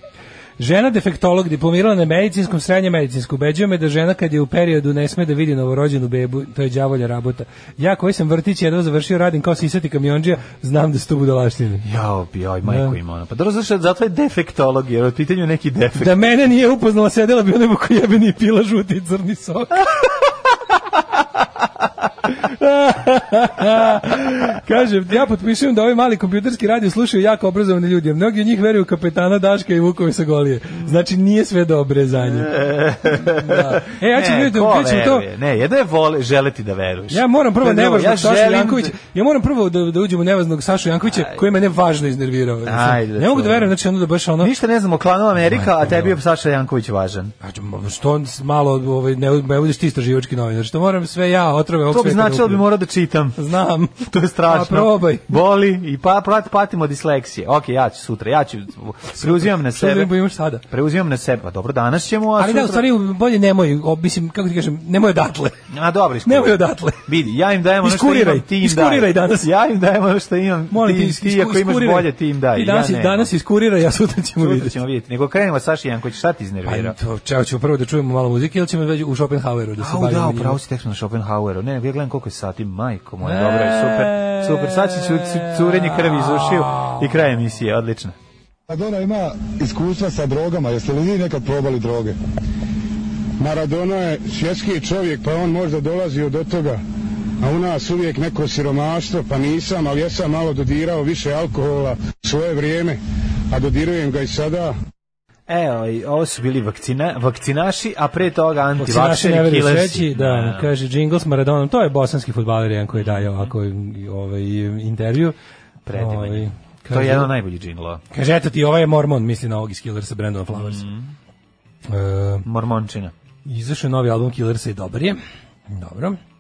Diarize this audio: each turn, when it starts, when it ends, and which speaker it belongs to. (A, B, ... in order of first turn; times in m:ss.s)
0:00.6-0:11.9 A
0:11.8-0:16.2 B
0:12.6-0:13.0 A
0:16.0-0:19.9 A
0:22.3-0:32.5 A
0:32.2-0:38.9 B
0:33.2-0:35.3 A
0:37.1-0:44.5 A
0:41.1-0:41.4 B
0:42.6-0:43.7 B
0:44.4-0:47.3 B
0:45.4-0:46.2 A
0:47.4-0:52.6 A
0:51.9-0:53.4 B
0:53.4-0:55.4 A
0:54.0-1:00.1 B
0:59.2-1:00.6 A
1:00.7-1:02.8 B
1:02.4-1:05.6 A
1:05.7-1:13.3 B
1:06.3-1:07.1 A
1:07.8-1:09.5 A
1:10.7-1:14.8 A
1:14.4-1:17.0 B
1:16.6-1:20.6 A
1:19.8-1:28.2 B
1:23.2-1:27.1 A
1:28.7-1:32.2 C
1:33.4-1:36.8 C
1:37.4-1:43.0 C
1:43.5-1:44.8 C
1:45.5-1:50.7 B
1:48.8-1:55.4 A
1:52.9-1:53.5 B
1:55.9-1:58.0 B
1:56.0-1:57.3 A
1:58.1-2:00.8 A
2:00.5-2:01.1 B
2:01.9-2:02.5 A
2:02.5-2:03.1 B
2:03.5-2:06.2 A